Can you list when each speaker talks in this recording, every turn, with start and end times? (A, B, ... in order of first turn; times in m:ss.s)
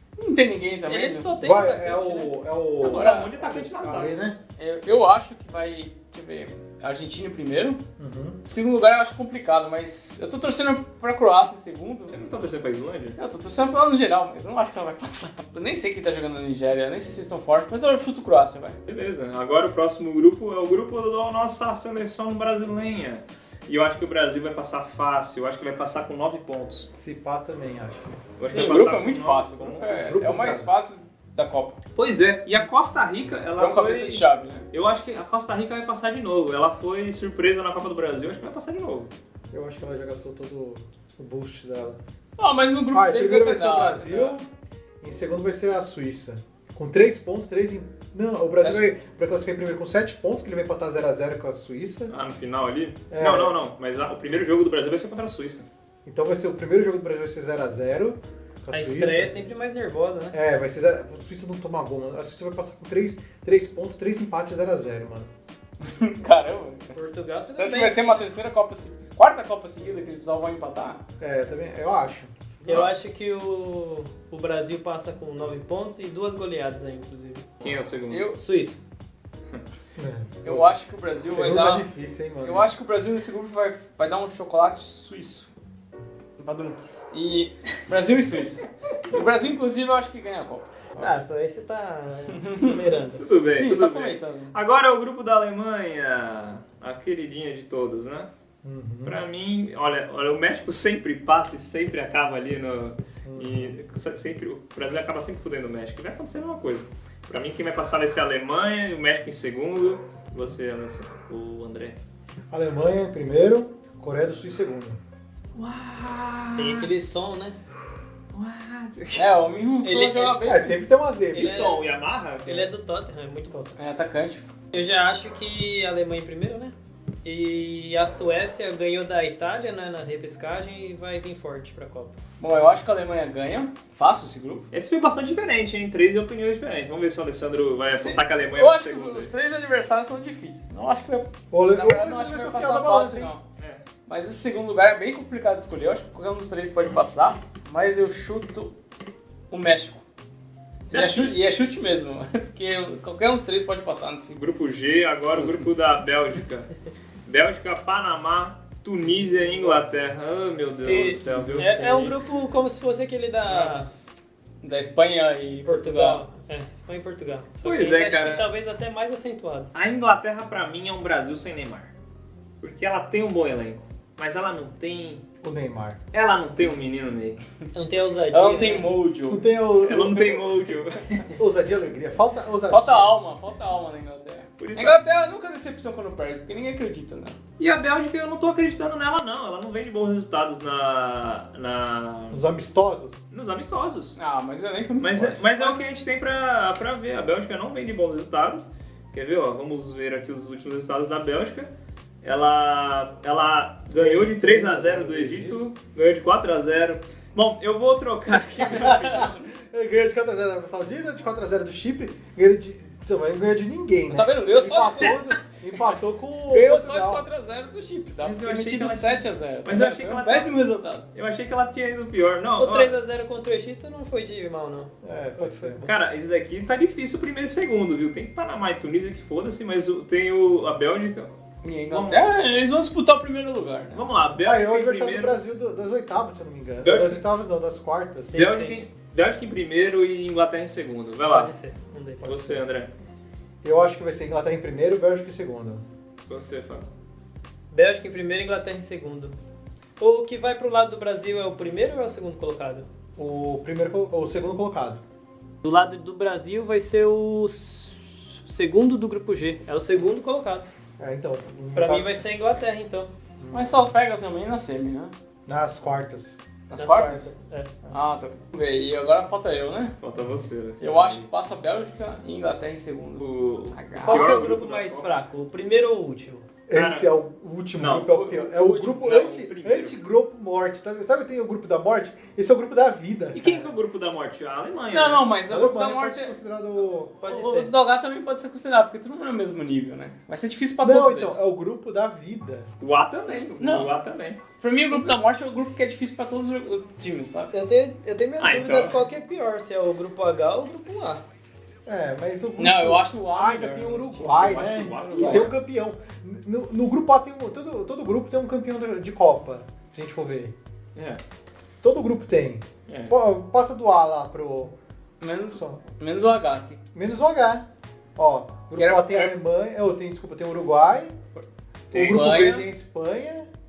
0:00.2-0:01.3 A
0:00.9-0:02.4 B
0:01.4-0:04.4 C
0:02.8-0:04.2 D
0:02.8-0:03.3 A
0:04.6-0:07.8 A
0:08.0-0:08.4 C
0:08.4-0:12.2 A
0:12.1-0:13.2 D
0:13.2-0:18.8 A
0:18.8-0:26.9 D
0:27.0-0:28.3 C
0:28.4-0:30.0 D
0:28.5-0:31.8 A
0:29.9-0:30.7 C
0:32.0-0:39.1 D
0:33.6-0:34.6 A
0:39.5-0:42.0 C
0:42.4-0:44.4 A
0:42.9-0:44.5 C
0:45.0-0:52.1 C
0:48.6-0:48.9 A
0:52.1-0:55.7 D
0:53.1-0:53.6 C
0:56.0-0:59.3 C
0:58.7-1:00.4 B
1:00.3-1:05.3 C
1:05.8-1:07.0 A
1:06.9-1:08.2 B
1:07.6-1:11.0 A
1:11.2-1:12.3 C
1:12.6-1:12.9 D
1:12.6-1:17.5 B
1:17.6-1:18.3 D
1:18.1-1:18.4 A
1:18.4-1:18.8 B
1:20.0-1:22.7 C
1:20.4-1:21.9 A
1:22.4-1:25.5 A
1:26.4-1:30.7 A
1:31.0-1:33.2 B
1:32.4-1:32.8 A
1:33.2-1:38.3 D
1:33.6-1:34.5 A
1:38.6-1:39.2 C
1:39.0-1:52.0 D
1:43.2-1:43.8 C
1:52.5-1:55.0 C
1:55.5-1:57.1 D
1:56.6-1:57.6 B
1:58.3-1:59.3 D
1:59.2-2:00.9 A
1:59.8-2:00.4 B
2:00.4-2:01.7 C
2:01.3-2:01.8 B
2:01.3-2:02.7 D
2:02.4-2:03.7 B
2:03.5-2:03.8 C
2:03.8-2:04.5 A
2:04.7-2:12.2 B
2:12.4-2:14.7 A
2:14.7-2:19.3 D
2:18.0-2:23.4 A
2:21.5-2:23.3 C
2:23.6-2:23.8 D
2:24.0-2:28.7 A
2:29.5-2:30.0 A
2:30.9-2:31.4 D
2:30.9-2:34.4 A
2:34.4-2:36.7 D
2:35.3-2:35.7 A
2:37.2-2:42.3 D
2:39.2-2:39.8 A
2:40.8-2:44.0 B
2:41.3-2:41.8 A
2:43.5-2:43.9 D
2:44.6-2:46.2 A
2:45.6-2:49.7 B
2:47.6-2:48.5 D
2:49.7-2:51.9 D
2:52.6-2:55.2 D
2:55.4-2:56.0 C
2:56.1-2:57.4 D
2:57.7-2:58.9 B
2:58.3-2:59.5 A
2:59.3-3:00.4 C
2:59.8-3:01.3 D
3:00.1-3:00.4 A
3:01.3-3:03.2 C
3:02.7-3:07.4 A
3:04.6-3:05.0 D
3:07.6-3:12.4 D
3:12.3-3:13.2 C
3:13.3-3:14.2 D
3:14.2-3:15.8 A
3:15.0-3:21.7 D
3:22.2-3:29.4 D
3:23.9-3:25.6 C
3:28.6-3:37.2 C
3:28.7-3:29.3 A
3:34.1-3:35.4 A
3:36.5-3:41.0 A
3:38.2-3:40.6 D
3:41.1-3:42.9 D
3:42.6-3:46.0 B
3:45.0-3:45.8 C
3:45.8-3:51.3 D
3:51.6-3:54.0 A
3:51.9-3:52.4 D
3:53.9-3:55.4 D
3:54.4-3:58.4 C
3:56.8-3:57.2 D
3:58.3-3:58.8 B
3:58.3-4:01.5 D
4:01.3-4:02.3 B
4:02.2-4:02.6 C
4:02.2-4:02.9 D
4:03.6-4:05.8 C
4:06.2-4:06.9 D
4:07.7-4:09.3 B
4:10.0-4:12.9 B
4:13.2-4:15.0 C
4:15.6-4:20.7 B
4:21.0-4:22.2 C
4:21.7-4:23.1 B
4:23.4-4:23.8 C
4:23.5-4:25.1 A
4:25.5-4:26.4 C
4:26.7-4:27.3 A
4:26.8-4:27.7 B
4:27.9-4:30.0 A
4:30.0-4:31.3 D
4:30.8-4:34.4 A
4:33.2-4:35.1 D
4:34.0-4:36.5 B
4:36.7-4:43.7 C
4:36.7-4:37.1 D
4:37.8-4:38.2 D
4:38.1-4:39.2 A
4:38.9-4:40.0 D
4:43.3-4:45.3 D
4:44.9-4:46.3 A
4:45.5-4:47.2 C
4:47.2-4:47.7 B
4:47.3-4:51.4 A
4:50.8-4:52.7 C
4:52.8-4:54.4 D
4:53.3-4:53.9 A
4:54.6-4:57.5 A
4:57.5-5:01.2 B
4:58.4-4:59.0 D
5:01.8-5:10.5 C
5:02.6-5:05.5 A
5:04.4-5:05.6 D
5:10.9-5:11.2 D
5:11.8-5:14.8 C
5:12.9-5:13.1 D
5:15.2-5:16.8 A
5:15.5-5:15.8 C
5:16.9-5:17.6 C
5:18.2-5:21.2 C
5:18.8-5:19.3 A
5:21.9-5:22.5 D
5:21.9-5:23.5 C
5:22.0-5:22.7 A